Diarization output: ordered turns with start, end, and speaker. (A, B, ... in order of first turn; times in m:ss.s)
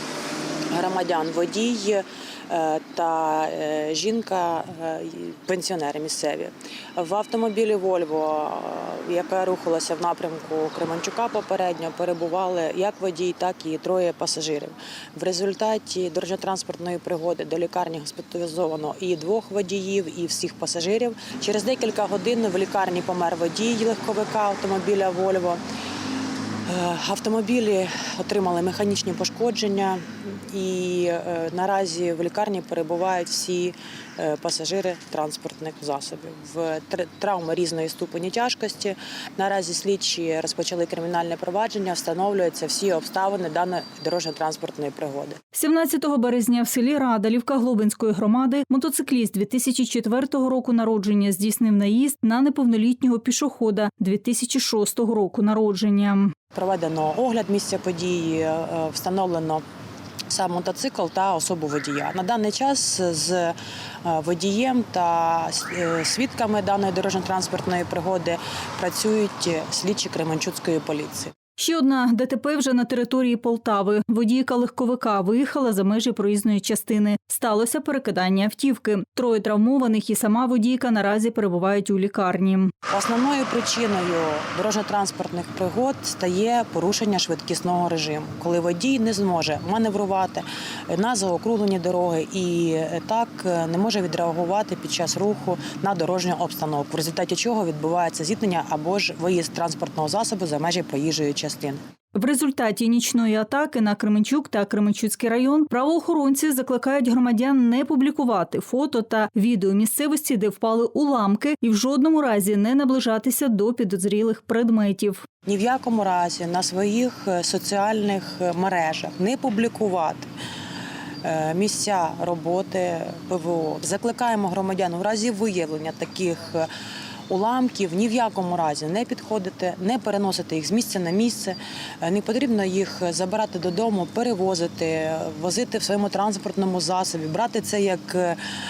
0:00.7-0:25.6 A
0:26.7-0:45.4 A
0:45.5-0:56.4 B
0:56.5-0:59.6 A
1:00.3-1:11.3 A
1:11.6-1:22.7 B
1:22.9-1:41.8 A
1:42.2-1:55.3 B
1:55.5-2:00.3 A
2:01.2-2:06.7 A
2:07.3-2:18.4 A